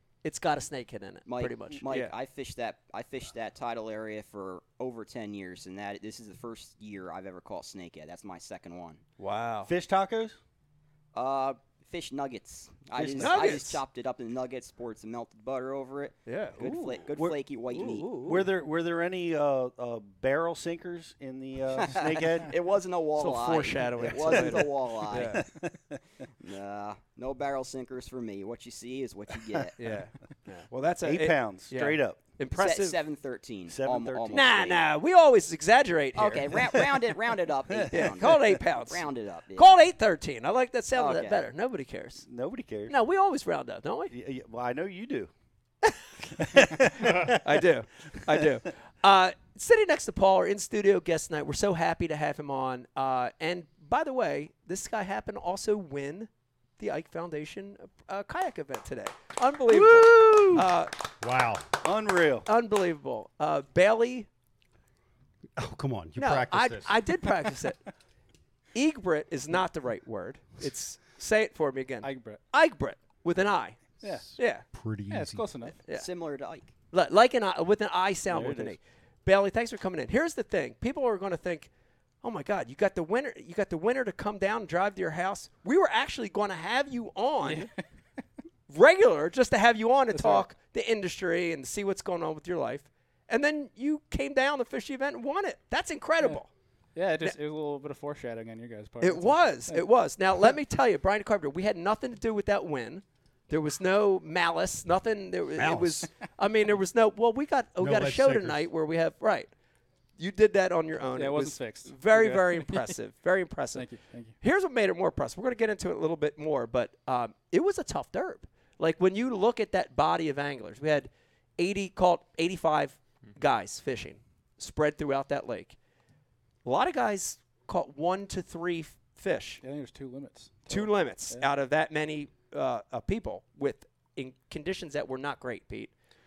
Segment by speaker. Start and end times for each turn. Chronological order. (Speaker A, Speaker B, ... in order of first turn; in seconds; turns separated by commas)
Speaker A: 0.2-2.1, Speaker B: 1.2-9.0, Speaker A: 9.2-9.7, Speaker C: 9.7-10.4, Speaker B: 11.1-18.2, Speaker C: 12.9-13.8, Speaker A: 13.2-13.8, Speaker A: 16.2-17.0, Speaker A: 17.7-18.5, Speaker C: 18.2-22.5, Speaker B: 21.8-25.4, Speaker A: 23.2-25.4, Speaker C: 24.2-26.0, Speaker B: 26.4-29.7, Speaker A: 29.8-33.0, Speaker C: 31.0-32.2, Speaker B: 32.5-34.8, Speaker C: 33.7-34.5, Speaker A: 34.3-36.5, Speaker B: 36.2-39.7, Speaker C: 36.6-38.3, Speaker A: 37.9-42.2, Speaker B: 41.0-41.4, Speaker C: 42.2-43.0, Speaker A: 42.9-44.1, Speaker C: 44.1-45.3, Speaker C: 46.4-47.6, Speaker A: 47.3-60.9, Speaker C: 59.7-60.7, Speaker D: 61.2-61.7, Speaker C: 61.8-62.5, Speaker A: 62.5-64.3, Speaker D: 65.6-67.0, Speaker A: 66.2-67.8, Speaker A: 68.8-74.7, Speaker E: 72.0-72.4, Speaker D: 74.0-75.5, Speaker E: 75.1-75.8, Speaker B: 75.9-76.7, Speaker A: 76.9-81.7, Speaker C: 78.3-78.8, Speaker A: 82.2-87.7, Speaker E: 87.4-87.7, Speaker A: 88.7-96.5, Speaker E: 90.1-90.5, Speaker E: 97.0-99.9, Speaker A: 99.0-109.5, Speaker D: 105.6-106.1, Speaker D: 107.8-108.7, Speaker A: 110.2-125.8, Speaker E: 111.2-113.0, Speaker E: 113.7-114.3, Speaker A: 126.7-129.6, Speaker E: 129.6-131.5, Speaker A: 130.7-135.9